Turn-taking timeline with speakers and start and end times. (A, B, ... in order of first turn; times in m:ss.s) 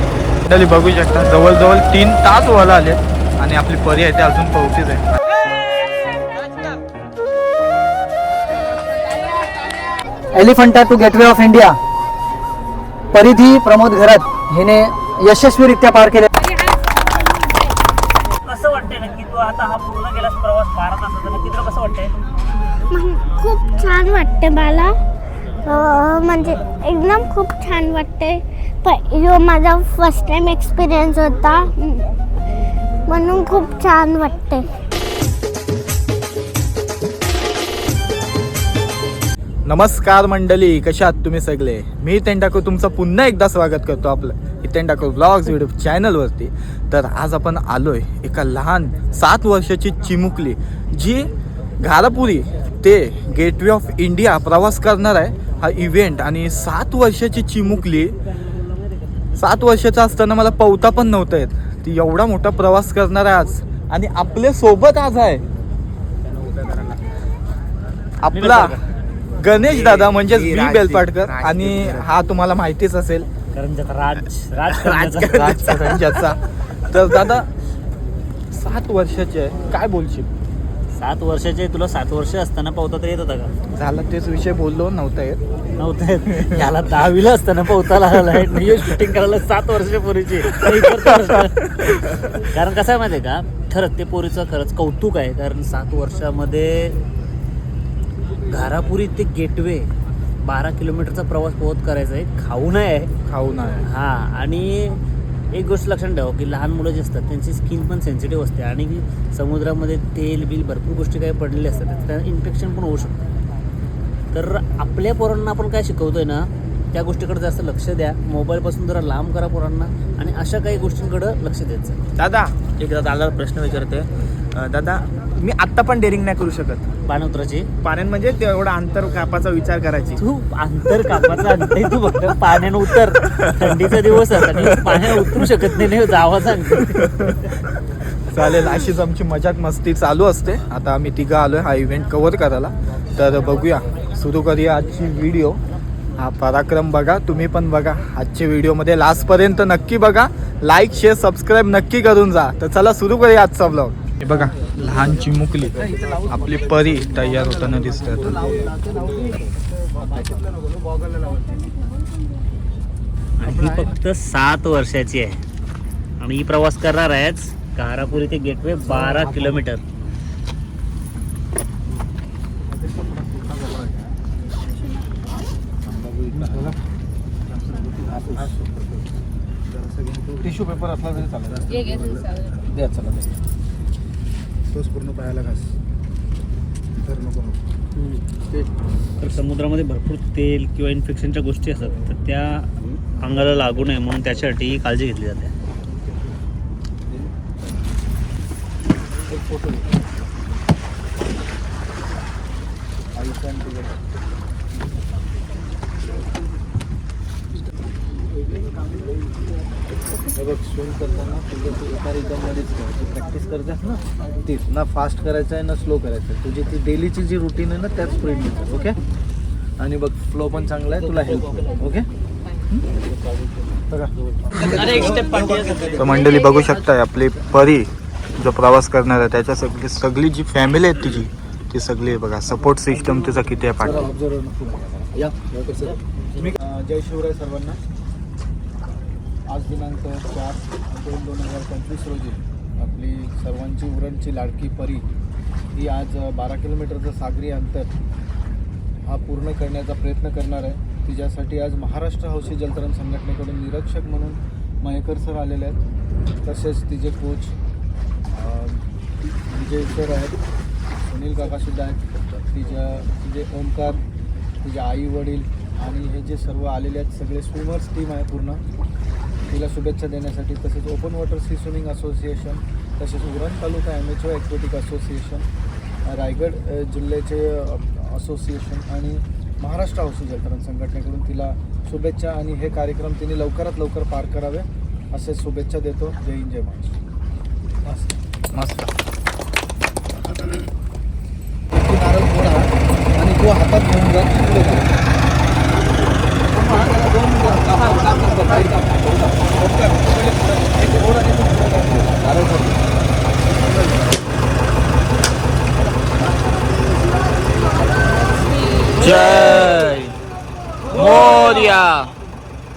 0:00.4-0:05.2 A
0:10.3-0:11.8 B
0:13.1-0:16.3 B
0:18.4-0:22.2 C
0:22.9-0:25.0 D
0:25.6-0:32.1 D
0:33.1-0:34.7 D
0:39.6-0:58.2 A
0:59.4-1:05.4 A
1:08.2-1:08.7 A
1:08.3-1:08.8 C
1:09.4-1:13.3 A
1:09.7-1:11.9 E
1:13.6-1:15.6 C
1:15.2-1:17.5 A
1:18.5-1:20.3 A
1:21.0-1:23.5 C
1:23.8-1:25.4 A
1:25.8-1:31.6 C
1:26.3-1:26.6 A
1:32.4-1:37.0 C
1:38.5-1:39.9 C
1:40.4-1:43.1 C
1:43.3-1:43.8 A
1:43.8-1:45.0 C
1:45.5-1:53.2 C
1:54.3-2:02.0 C
2:02.2-2:06.9 E
2:07.1-2:07.7 C
2:07.8-2:10.2 E
2:10.2-2:17.0 C
2:16.9-2:17.4 A
2:18.3-2:25.6 A
2:26.2-2:38.4 A
2:43.4-2:45.4 C
2:46.2-2:49.8 C
2:56.3-2:56.7 F
2:58.2-2:58.5 F
3:00.4-3:02.0 F
3:02.7-3:03.3 F
3:09.2-3:15.5 C
3:19.3-3:19.9 F
3:23.2-3:23.9 F
3:30.3-3:39.0 F
3:39.8-3:42.1 F
3:44.7-3:45.3 F
3:45.9-3:54.1 A
3:53.8-3:57.8 F
3:59.5-4:05.0 F
4:05.7-4:07.9 F
4:09.1-4:15.8 F
4:16.4-4:17.6 F
4:18.3-4:18.8 F
4:19.5-4:20.4 F
4:20.9-4:24.0 F
4:24.6-4:28.6 F
4:29.5-4:35.5 F
4:36.0-4:47.0 F
4:48.5-4:48.9 A
4:51.8-4:54.9 F
4:58.5-4:58.9 F
5:01.4-5:02.6 F
5:08.9-5:10.1 A
5:10.9-5:12.1 A